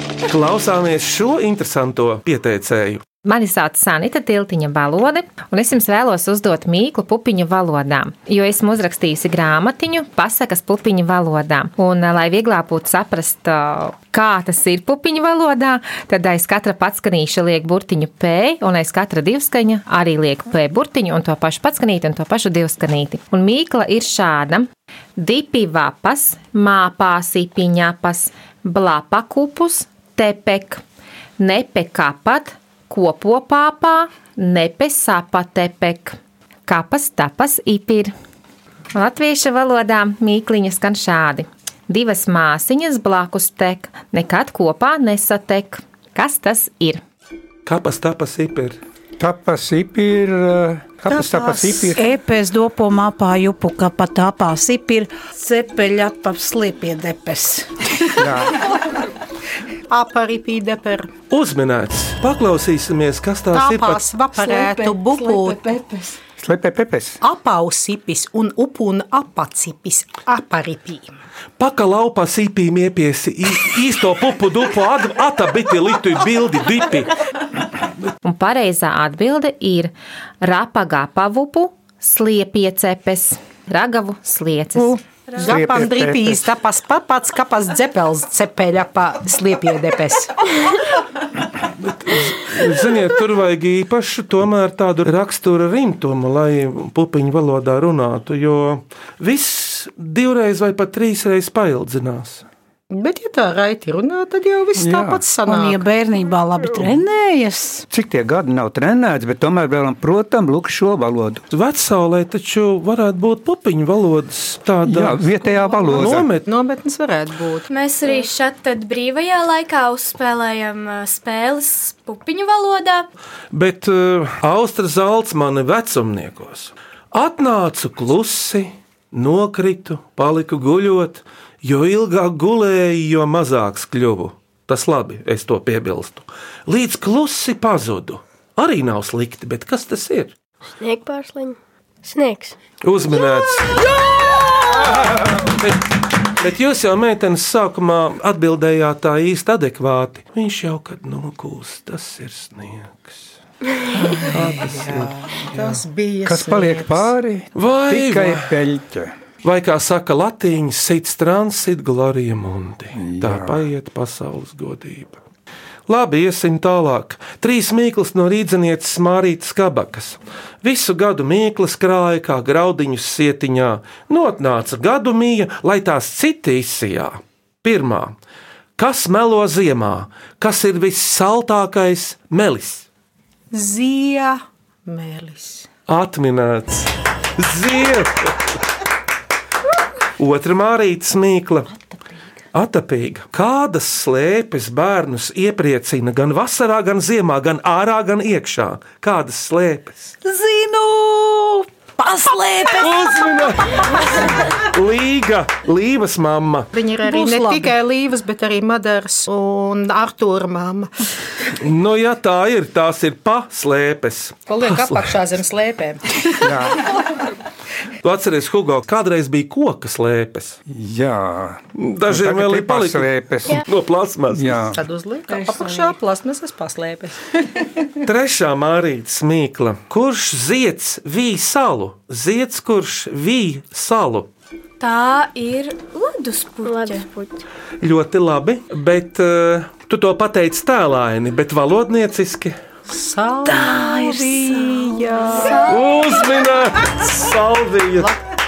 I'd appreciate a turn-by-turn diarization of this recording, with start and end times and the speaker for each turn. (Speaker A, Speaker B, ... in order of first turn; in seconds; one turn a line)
Speaker A: 0.3-3.0
Speaker B: 3.2-30.8
Speaker B: 31.4-38.1
Speaker B: 38.9-47.0
Speaker A: 47.7-48.8
Speaker C: 49.2-52.0
Speaker D: 51.1-52.0
Speaker E: 52.0-58.4
Speaker C: 58.2-58.5
Speaker D: 59.9-61.1
Speaker A: 61.3-64.0
Speaker D: 63.5-65.7
Speaker E: 64.3-66.2
Speaker C: 66.4-67.2
Speaker D: 67.2-71.0
Speaker A: 71.6-77.1
Speaker B: 78.2-85.0
Speaker D: 85.3-90.3
Speaker C: 85.4-86.5
Speaker A: 91.8-102.5
Speaker D: 102.9-105.8
Speaker C: 104.8-105.2
Speaker E: 105.5-107.8
Speaker C: 106.7-107.0
Speaker C: 107.9-111.4
Speaker A: 111.5-115.3
Speaker C: 114.9-116.3
Speaker D: 115.7-117.7
Speaker A: 115.9-116.5
Speaker F: 117.7-123.1
Speaker A: 123.5-140.3
Speaker G: 140.8-142.6
Speaker A: 142.8-143.9
Speaker A: 144.7-153.3
Speaker D: 154.0-157.1
Speaker C: 154.3-155.1
Speaker A: 154.4-155.0
Speaker C: 156.2-159.1
Speaker A: 157.5-158.5
Speaker A: 159.4-165.2
Speaker C: 163.0-163.6
Speaker A: 165.9-178.2
Speaker A: 178.8-182.9
Speaker D: 183.5-185.7
Speaker A: 185.9-188.4
Speaker A: 190.2-191.7
Speaker A: 192.5-200.1
Speaker E: 200.2-204.2
Speaker A: 202.8-206.7
Speaker D: 206.7-210.9
Speaker E: 207.0-207.7
Speaker A: 211.6-215.1
Speaker D: 214.5-216.0
Speaker C: 216.4-216.8
Speaker A: 218.0-220.6
Speaker C: 220.7-223.7
Speaker A: 221.8-224.6
Speaker C: 224.3-224.8
Speaker D: 224.7-227.4
Speaker E: 225.3-226.0
Speaker A: 228.0-234.3
Speaker F: 234.8-237.1
Speaker G: 236.6-237.4
Speaker A: 237.8-242.6
Speaker D: 242.9-245.6
Speaker E: 243.4-245.6
Speaker F: 245.3-246.5
Speaker A: 245.7-248.1